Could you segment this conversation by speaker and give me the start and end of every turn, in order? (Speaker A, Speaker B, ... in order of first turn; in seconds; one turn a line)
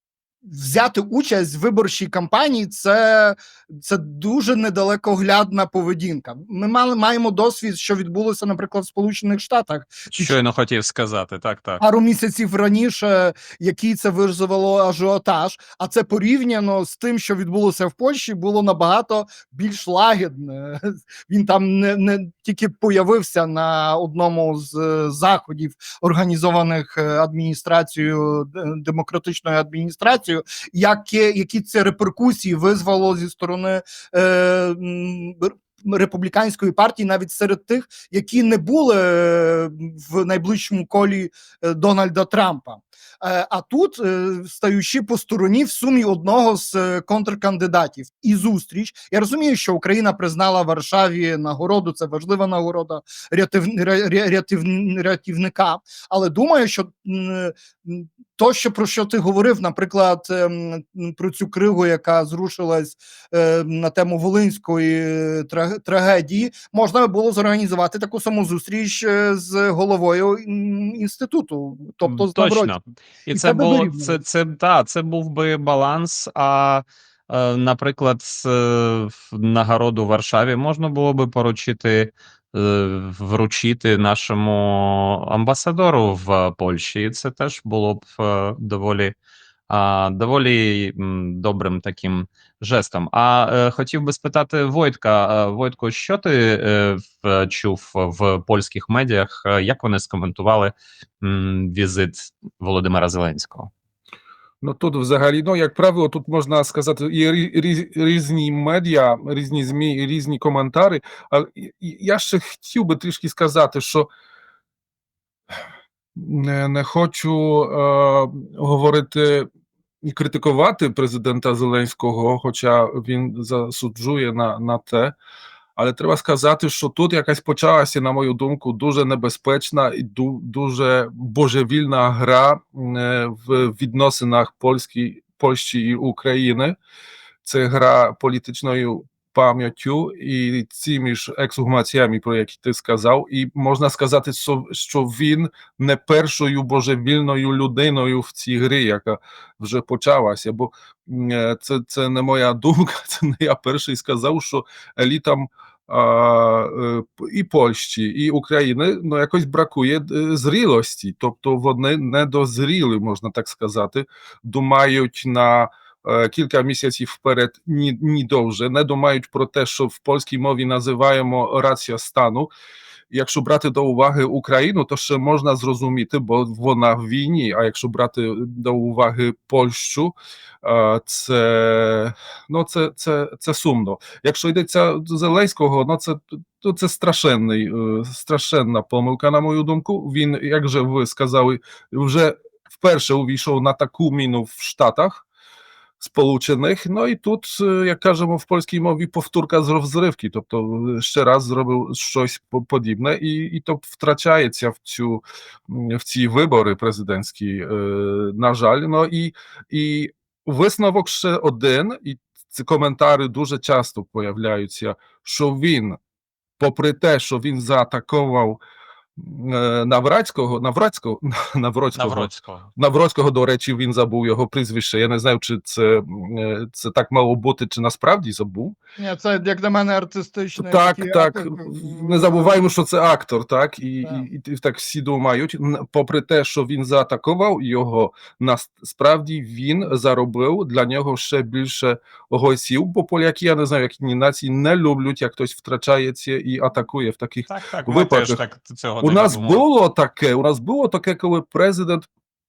Speaker A: 0.4-10.3
Speaker B: 10.1-11.8
Speaker A: 11.8-72.7
Speaker B: 72.0-89.1
Speaker A: 73.3-74.2
Speaker B: 89.7-103.7
Speaker C: 104.6-114.1
Speaker C: 116.2-119.5
Speaker C: 120.0-125.1
Speaker C: 125.8-136.8
Speaker C: 137.4-172.5
Speaker C: 173.1-195.2
Speaker C: 196.0-216.0
Speaker C: 216.6-218.6
Speaker C: 219.2-228.7
Speaker B: 221.9-222.7
Speaker A: 229.0-232.6
Speaker C: 230.6-248.4
Speaker B: 247.5-249.6
Speaker C: 249.0-252.1